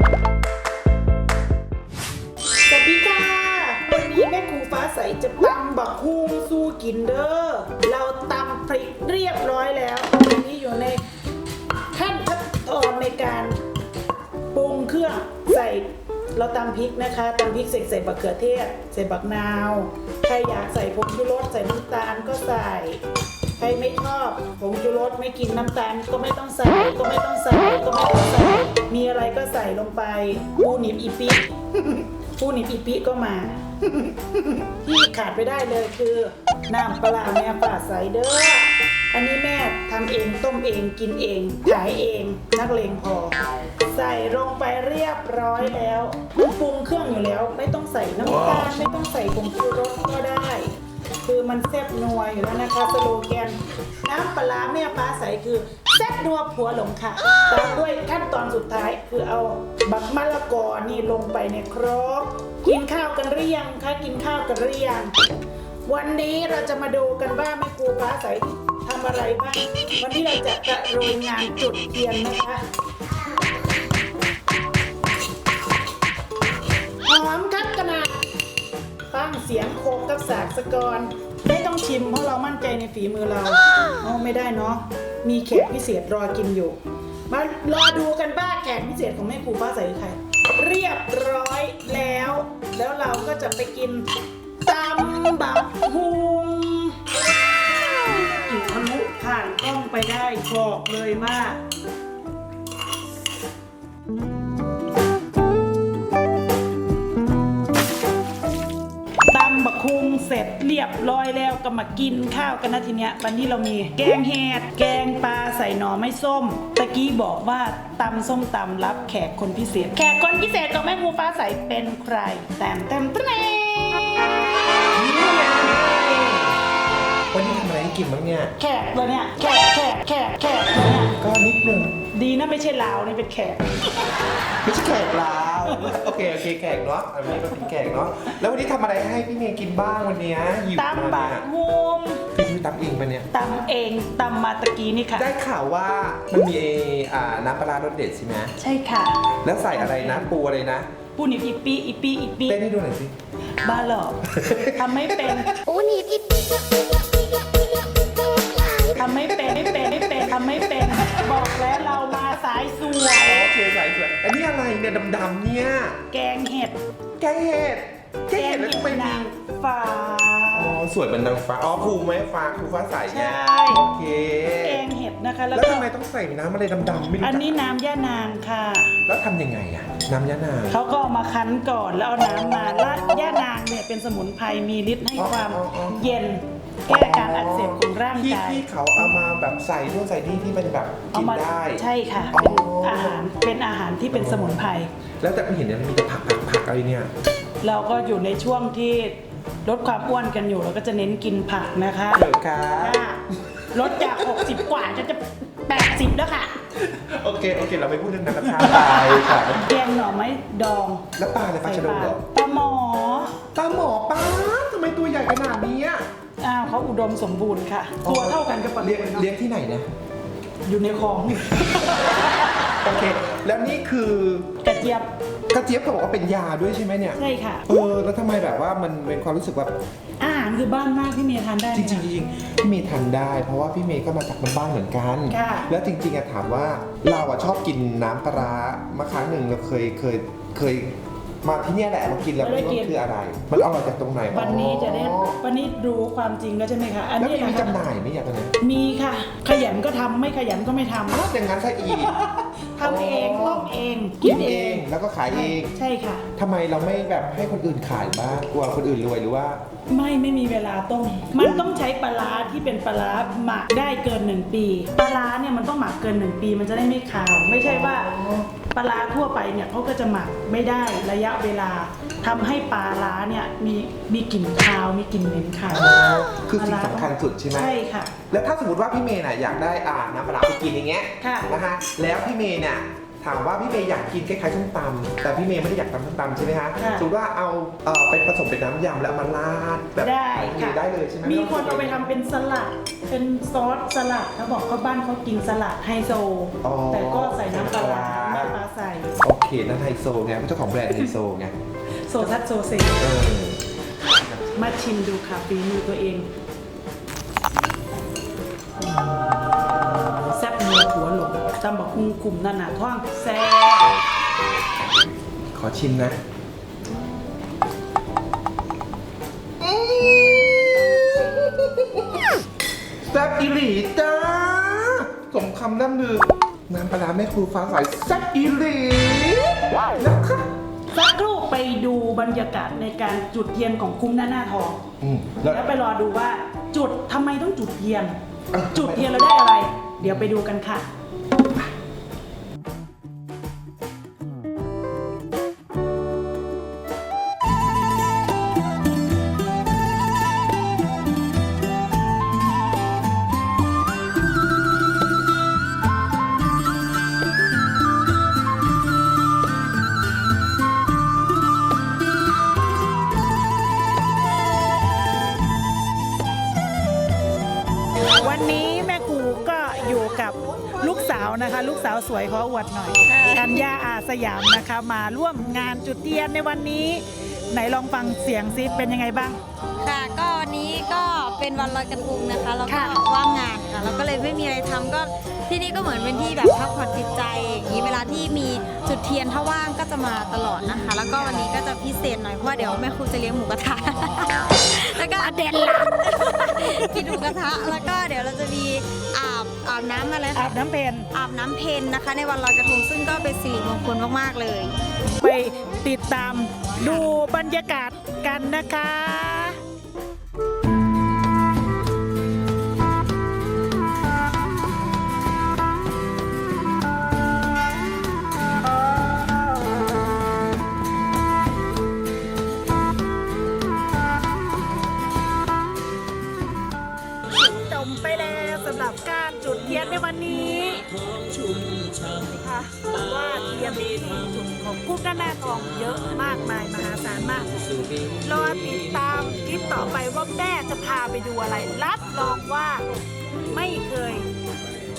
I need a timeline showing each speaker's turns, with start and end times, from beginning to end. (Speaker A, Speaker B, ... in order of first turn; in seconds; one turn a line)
Speaker A: 2.6-11.0
Speaker A: 11.9-13.6
Speaker A: 14.5-23.0
Speaker A: 23.6-31.5
Speaker A: 32.4-33.6
Speaker A: 34.8-65.1
Speaker A: 65.8-72.6
Speaker A: 77.0-78.2
Speaker A: 79.1-94.1
Speaker A: 94.6-97.0
Speaker A: 97.8-101.6
Speaker A: 109.3-124.5
Speaker B: 124.9-126.6
Speaker B: 127.3-128.5
Speaker A: 128.6-131.2
Speaker B: 131.2-131.9
Speaker A: 132.1-134.1
Speaker B: 134.6-141.5
Speaker A: 135.7-136.0
Speaker A: 140.7-142.2
Speaker B: 142.3-143.3
Speaker A: 143.3-145.3
Speaker B: 145.1-148.5
Speaker A: 148.6-149.2
Speaker B: 149.4-150.9
Speaker A: 149.7-150.3
Speaker A: 151.2-152.6
Speaker B: 152.4-153.1
Speaker A: 153.6-155.6
Speaker B: 154.2-155.3
Speaker C: 155.7-156.2
Speaker A: 158.9-163.5
Speaker B: 163.2-166.0
Speaker A: 166.1-166.8
Speaker B: 167.2-169.3
Speaker A: 168.3-170.8
Speaker B: 170.5-174.8
Speaker A: 173.1-173.8
Speaker A: 174.6-175.9
Speaker B: 175.5-177.5
Speaker A: 177.2-179.0
Speaker B: 179.1-180.8
Speaker A: 180.7-188.6
Speaker B: 185.1-186.0
Speaker B: 186.9-193.2
Speaker A: 191.1-194.9
Speaker B: 194.1-194.6
Speaker B: 195.2-197.1
Speaker A: 197.6-203.2
Speaker B: 202.1-204.6
Speaker A: 203.7-206.6
Speaker B: 206.8-209.7
Speaker A: 208.4-211.1
Speaker B: 211.2-212.2
Speaker A: 211.6-213.4
Speaker B: 213.5-216.1
Speaker A: 216.4-219.3
Speaker B: 218.0-219.9
Speaker A: 220.7-222.5
Speaker B: 222.8-224.5
Speaker A: 224.6-225.1
Speaker B: 225.5-229.7
Speaker A: 227.1-227.7
Speaker A: 230.2-232.1
Speaker B: 231.7-245.4
Speaker A: 235.3-235.7
Speaker A: 242.4-243.0
Speaker A: 244.3-247.8
Speaker B: 247.2-248.5
Speaker A: 248.6-251.3
Speaker B: 251.1-252.1
Speaker A: 251.8-256.3
Speaker B: 252.8-255.7
Speaker B: 256.4-259.6
Speaker A: 259.9-275.9
Speaker B: 267.6-268.5
Speaker B: 275.7-277.7
Speaker A: 276.5-278.1
Speaker B: 278.3-292.1
Speaker A: 281.2-281.5
Speaker A: 286.8-287.1
Speaker A: 290.0-299.1
Speaker B: 296.6-298.6
Speaker B: 299.2-301.5
Speaker A: 302.1-303.1
Speaker B: 303.0-303.6
Speaker A: 304.4-306.3
Speaker A: 310.2-313.9
Speaker B: 315.5-316.2
Speaker B: 319.6-322.2
Speaker B: 323.1-330.5
Speaker A: 330.9-334.8
Speaker B: 335.0-335.6
Speaker A: 335.4-338.1
Speaker B: 338.5-339.3
Speaker A: 338.7-340.9
Speaker B: 340.0-340.3
Speaker A: 368.1-379.4
Speaker B: 370.4-371.8
Speaker C: 373.0-373.6
Speaker C: 379.8-400.5
Speaker A: 382.6-383.0
Speaker A: 391.1-391.4
Speaker A: 395.2-397.2
Speaker A: 400.3-401.1
Speaker C: 401.1-404.7
Speaker A: 405.2-409.6
Speaker C: 406.8-407.1
Speaker A: 427.3-442.8
Speaker A: 443.4-444.3